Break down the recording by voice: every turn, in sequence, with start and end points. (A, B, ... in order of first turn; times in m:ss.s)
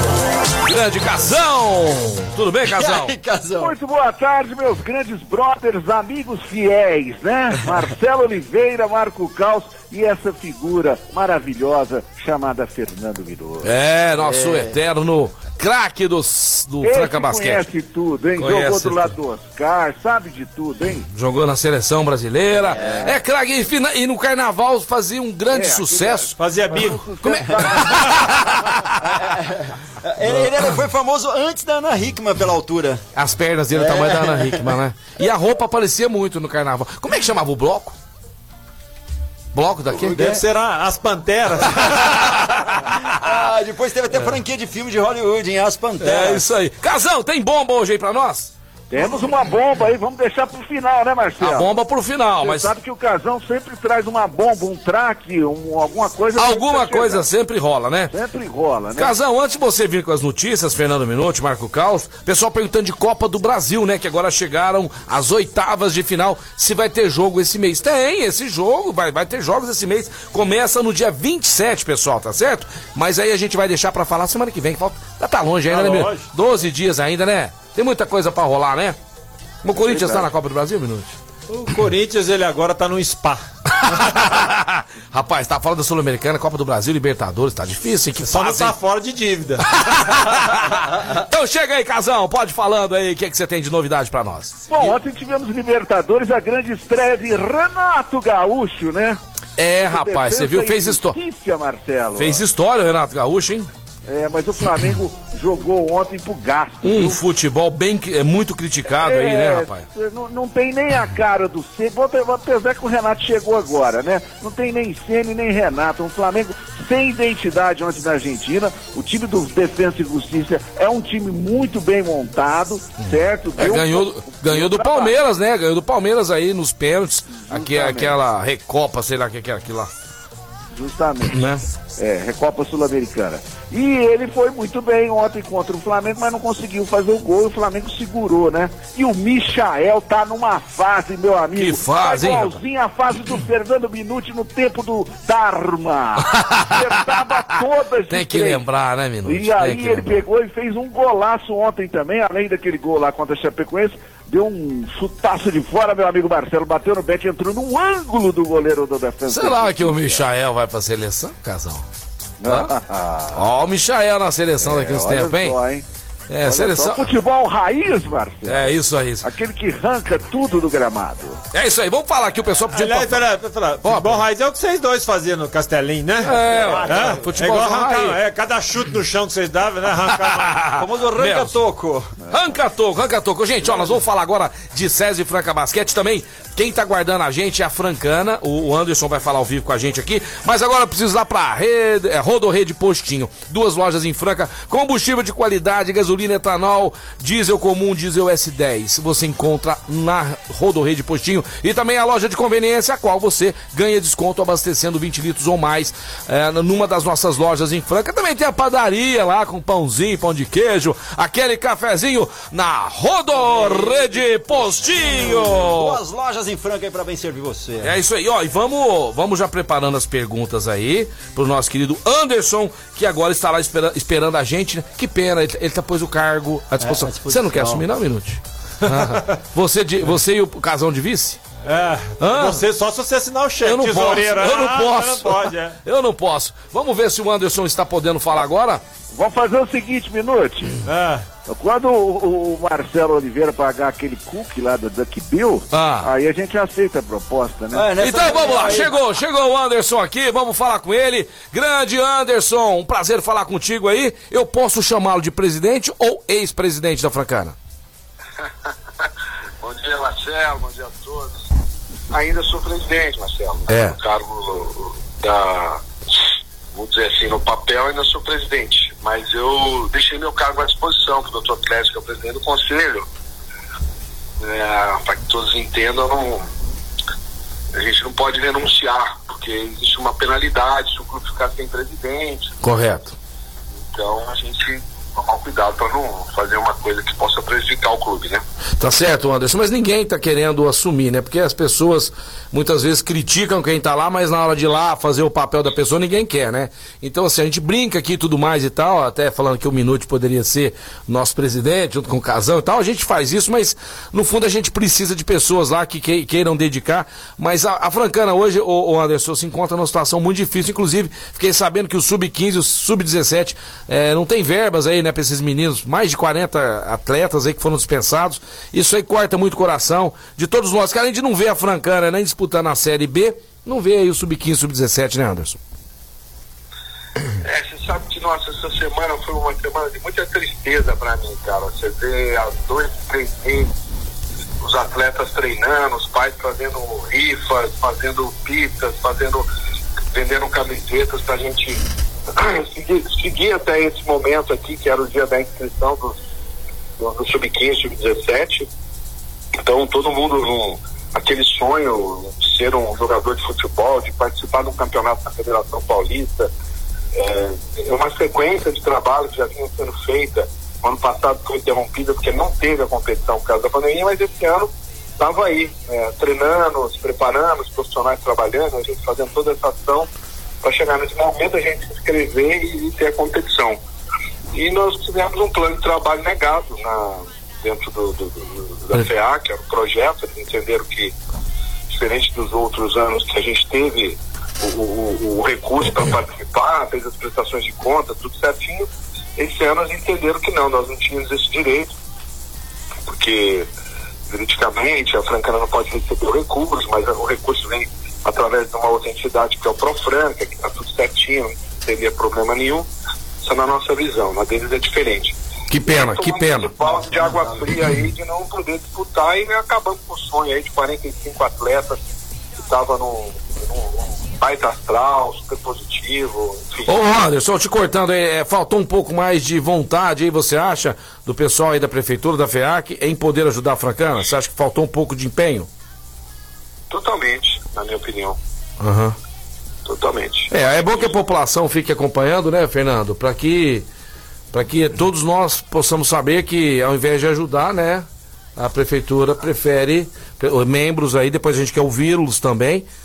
0:00.6-0:03.1 A
0:02.6-0:03.7 B
0:03.6-0:13.7 C
0:13.6-0:17.6 A
0:14.2-0:14.7 B
0:16.8-0:21.0 C
0:18.4-0:19.1 A
0:21.1-0:26.3 A
0:22.7-0:23.1 B
0:22.7-0:23.2 C
0:25.5-0:28.8 C
0:26.4-0:27.1 D
0:27.2-0:29.4 A
0:29.1-0:33.0 B
0:33.1-0:38.0 A
0:33.7-0:34.6 B
0:39.5-0:40.3 A
0:40.1-0:42.3 D
0:40.1-0:40.4 B
0:41.8-0:43.2 A
0:42.9-0:46.4 B
0:46.0-0:48.5 A
0:48.9-0:51.8 C
0:51.4-0:52.7 A
0:52.4-0:57.2 C
0:56.4-0:58.1 A
0:58.1-0:59.1 C
0:59.0-1:19.0 A
1:15.7-1:16.3 D
1:19.6-1:21.2 A
1:21.5-1:23.4 D
1:23.8-1:28.7 A
1:28.2-1:29.7 D
1:29.6-1:34.7 A
1:34.7-1:39.2 C
1:39.6-1:41.2 A
1:39.8-1:42.4 C
1:42.1-1:43.7 A
1:44.1-1:47.2 C
1:46.8-1:49.8 A
1:48.9-2:05.1 C
2:03.0-2:09.9 A
2:07.3-2:08.2 C
2:10.7-2:11.4 C
2:11.2-2:11.6 A
2:12.0-2:28.6 C
2:21.6-2:22.6 A
2:26.2-2:27.2 A
2:28.1-2:30.2 A
2:29.2-2:40.2 C
2:39.3-2:41.8 A
2:42.4-2:43.4 C
2:42.4-2:42.7 A
2:43.3-2:45.6 A
2:44.6-2:45.8 C
2:46.3-2:47.1 A
2:46.4-2:51.4 C
2:48.4-2:49.3 A
2:51.5-2:53.2 A
2:52.7-3:00.6 D
2:53.8-2:54.2 A
2:56.2-2:58.2 A
2:56.4-2:57.2 B
3:00.1-3:01.5 A
3:00.7-3:02.1 B
3:02.3-3:36.0 A
3:33.4-3:37.9 B
3:37.8-3:51.4 A
3:46.8-3:47.8 B
3:48.8-3:49.3 D
3:51.6-3:55.8 D
3:52.2-3:52.6 A
3:53.6-3:58.8 A
3:59.1-4:00.8 C
4:00.8-4:01.2 D
4:01.4-4:07.9 C
4:05.7-4:06.1 A
4:07.7-4:09.0 B
4:08.0-4:17.5 A
4:19.6-4:21.3 E
4:22.1-4:25.8 E
4:23.7-4:24.0 A
4:26.7-4:33.0 E
4:34.4-4:36.5 E
4:37.7-4:42.5 E
4:42.6-4:43.1 A
4:43.9-4:48.4 E
4:48.8-5:25.6 A
5:27.4-5:33.7 E
5:34.6-5:39.5 E
5:40.1-5:46.1 E
5:47.0-5:48.7 E
5:49.6-5:56.5 E
5:57.1-6:10.1 E
6:10.6-6:13.8 E
6:14.5-6:21.1 E
6:21.9-6:31.9 E
6:33.1-6:33.7 E
6:34.3-6:42.9 E
6:43.4-6:52.0 E
6:45.7-6:46.7 A
6:52.6-6:57.0 E
6:56.9-7:05.7 A
7:06.9-7:08.4 E
7:08.8-7:09.1 A
7:09.8-7:11.0 E
7:10.5-7:13.8 A
7:14.5-7:18.0 A
7:18.6-7:22.9 A